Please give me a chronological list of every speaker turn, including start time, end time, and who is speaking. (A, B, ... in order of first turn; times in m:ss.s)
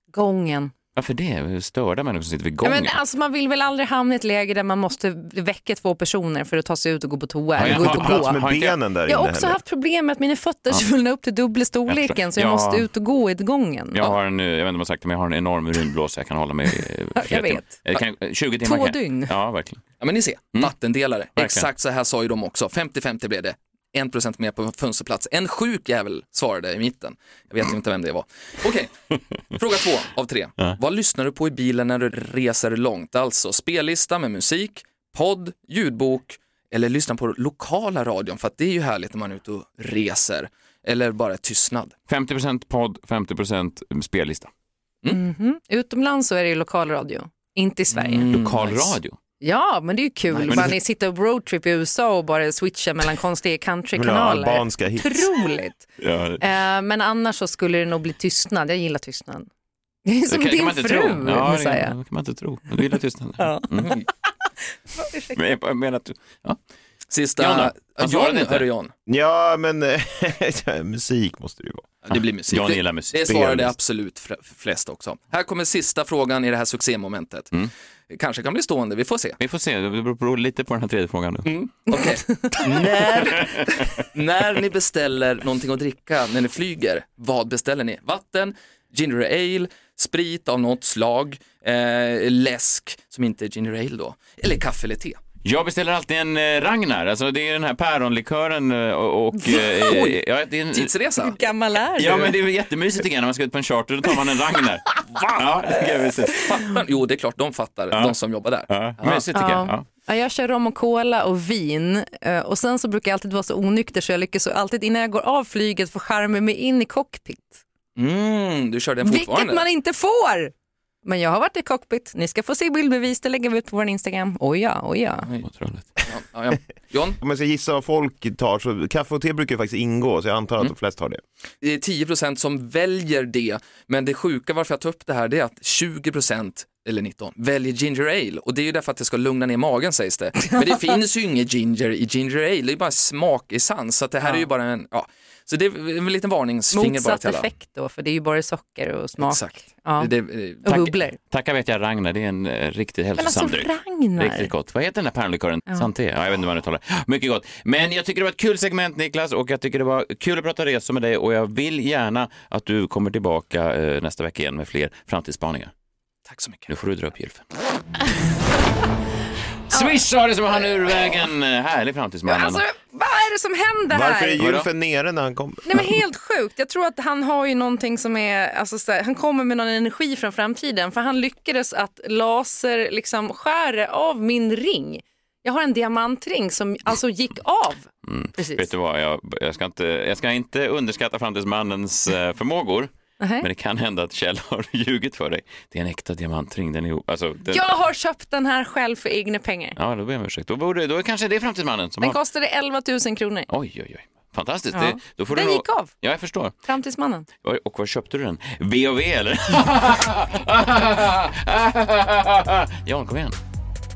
0:00.1-0:00.7 A
0:01.0-0:03.0 B
0:02.6-0:08.4 A
0:07.6-0:08.8 B
0:07.6-0:09.6 C
0:09.0-0:14.2 A
0:11.9-0:12.9 B
0:13.9-0:19.8 B
0:17.2-0:18.0 A
0:18.6-0:19.3 A
0:20.0-0:28.9 D
0:21.4-0:21.7 B
0:29.6-0:41.9 D
0:42.1-0:44.5 B
0:45.1-0:48.3 A
0:47.9-0:49.0 D
0:48.3-0:49.2 B
0:49.4-0:55.9 A
0:50.3-0:50.7 D
0:50.5-0:50.8 B
0:53.9-0:55.3 C
0:56.0-0:56.4 B
0:56.4-0:59.5 A
1:00.0-1:02.0 A
1:00.3-1:04.0 B
1:03.4-1:04.1 A
1:04.9-1:05.4 A
1:05.3-1:06.6 B
1:07.1-1:08.9 D
1:07.4-1:08.7 B
1:09.1-1:11.9 C
1:12.0-1:19.4 D
1:12.5-1:13.2 B
1:13.3-1:13.7 C
1:19.4-1:21.5 B
1:21.4-1:35.2 D
1:23.4-1:23.7 B
1:35.4-1:40.9 B
1:39.7-1:40.2 D
1:40.7-1:41.4 D
1:41.2-1:42.3 A
1:42.0-1:46.5 B
1:46.4-1:49.3 D
1:47.9-1:49.8 B
1:49.3-1:57.6 A
1:58.0-1:59.6 D
1:59.0-2:00.5 A
2:01.0-2:05.3 A
2:05.4-2:05.9 B
2:06.1-2:07.2 D
2:07.2-2:11.2 C
2:11.6-2:27.5 D
2:26.7-2:30.1 A
2:29.2-2:30.7 D
2:30.6-2:31.2 A
2:30.7-2:45.7 B
2:33.2-2:34.5 A
2:46.3-2:46.7 D
2:46.7-2:47.5 B
2:49.7-2:52.6 B
2:49.7-2:50.0 A
2:52.3-2:54.4 A
2:53.9-2:56.0 C
2:54.4-2:54.7 B
2:55.6-3:08.7 A
3:08.1-3:17.7 B
3:13.2-3:13.5 A
3:17.5-3:19.8 A
3:19.8-3:22.2 B
3:22.0-3:23.5 A
3:23.5-3:26.6 B
3:24.7-3:25.9 A
3:26.6-3:27.3 A
3:27.4-3:33.4 B